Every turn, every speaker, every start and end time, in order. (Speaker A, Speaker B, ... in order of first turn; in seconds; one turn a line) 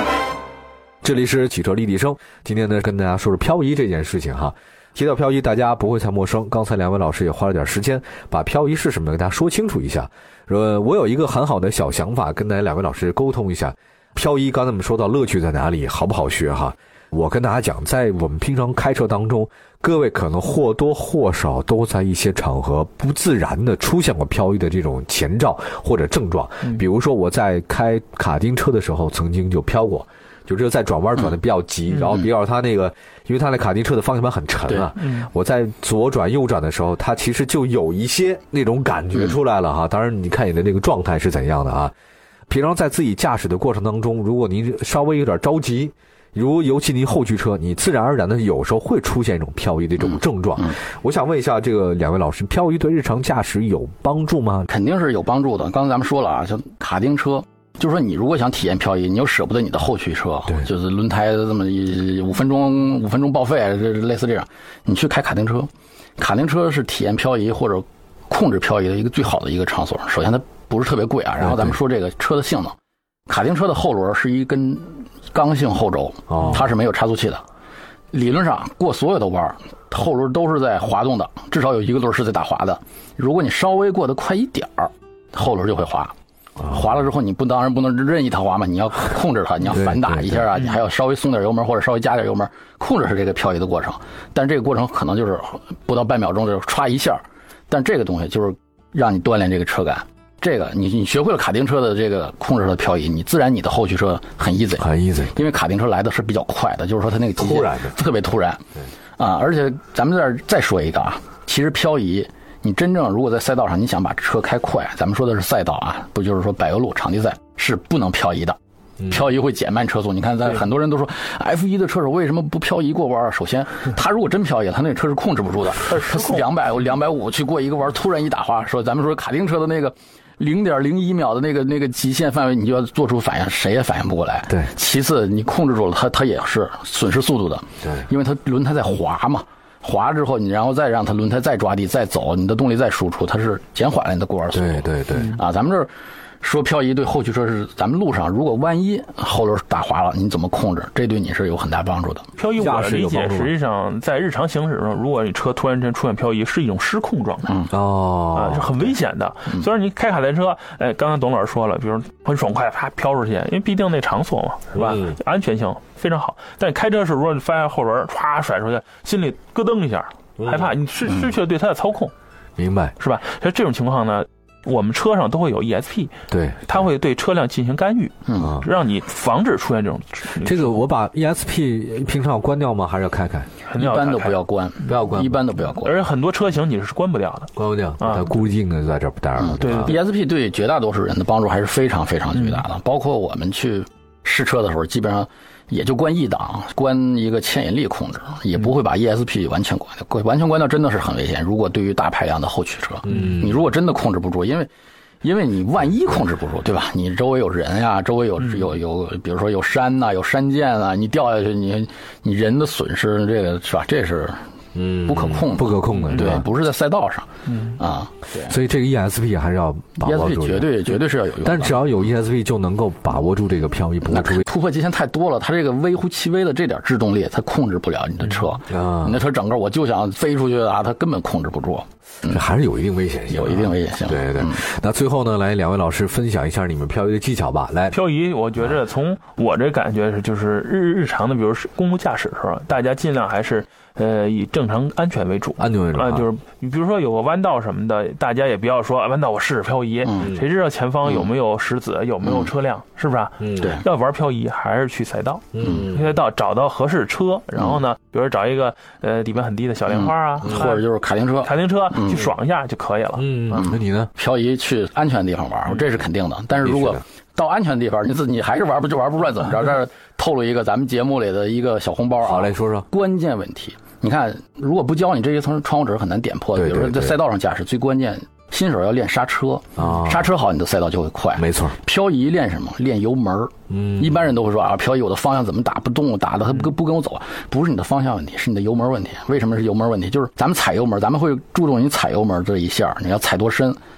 Speaker A: 1.0-41.9
Speaker B: 31.9-32.2
Speaker B: 35.0-35.3
Speaker A: 42.5-54.7
Speaker C: 54.7-72.7
Speaker A: 71.4-71.8
Speaker C: 73.3-77.4
Speaker A: 76.3-76.7
Speaker C: 78.1-86.1
Speaker C: 86.7-108.6
Speaker A: 89.7-90.5
Speaker A: 104.8-105.4
Speaker A: 107.4-108.0
Speaker C: 109.2-152.2
Speaker B: 125.8-126.5
Speaker A: 144.5-145.4
Speaker B: 152.4-157.5
Speaker A: 152.6-153.5
Speaker A: 157.7-158.9
Speaker B: 158.3-172.1
Speaker A: 164.7-165.2
Speaker A: 170.4-170.7
Speaker A: 172.6-172.9
Speaker B: 173.0-176.1
Speaker A: 176.3-176.8
Speaker B: 176.7-180.8
Speaker C: 178.2-178.6
Speaker A: 178.4-178.7
Speaker A: 180.4-183.5
Speaker B: 183.7-184.3
Speaker C: 183.8-186.0
Speaker A: 184.8-185.4
Speaker B: 185.8-188.3
Speaker A: 187.6-189.9
Speaker C: 189.4-204.7
Speaker B: 189.6-190.0
Speaker A: 203.0-203.6
Speaker C: 205.2-214.4
Speaker A: 214.7-216.4
Speaker C: 215.0-218.5
Speaker B: 216.0-216.4
Speaker B: 217.4-217.8
Speaker A: 218.4-220.7
Speaker C: 220.0-222.0
Speaker A: 221.4-224.4
Speaker C: 224.0-232.4
Speaker A: 228.7-229.2
Speaker A: 232.3-238.0
Speaker C: 233.3-234.6
Speaker B: 237.9-260.9
Speaker A: 245.6-246.3
Speaker C: 250.1-250.3
Speaker C: 252.2-252.5
Speaker A: 253.4-253.8
Speaker A: 255.5-256.1
Speaker C: 255.6-255.9
Speaker C: 257.5-257.8
Speaker C: 259.9-262.3
Speaker A: 260.4-260.7
Speaker B: 261.4-263.2
Speaker A: 263.1-264.1
Speaker C: 263.5-293.8
Speaker A: 266.6-267.0
Speaker A: 272.2-272.9
Speaker A: 276.6-277.1
Speaker A: 279.8-280.3
Speaker A: 281.4-281.8
Speaker A: 283.7-284.2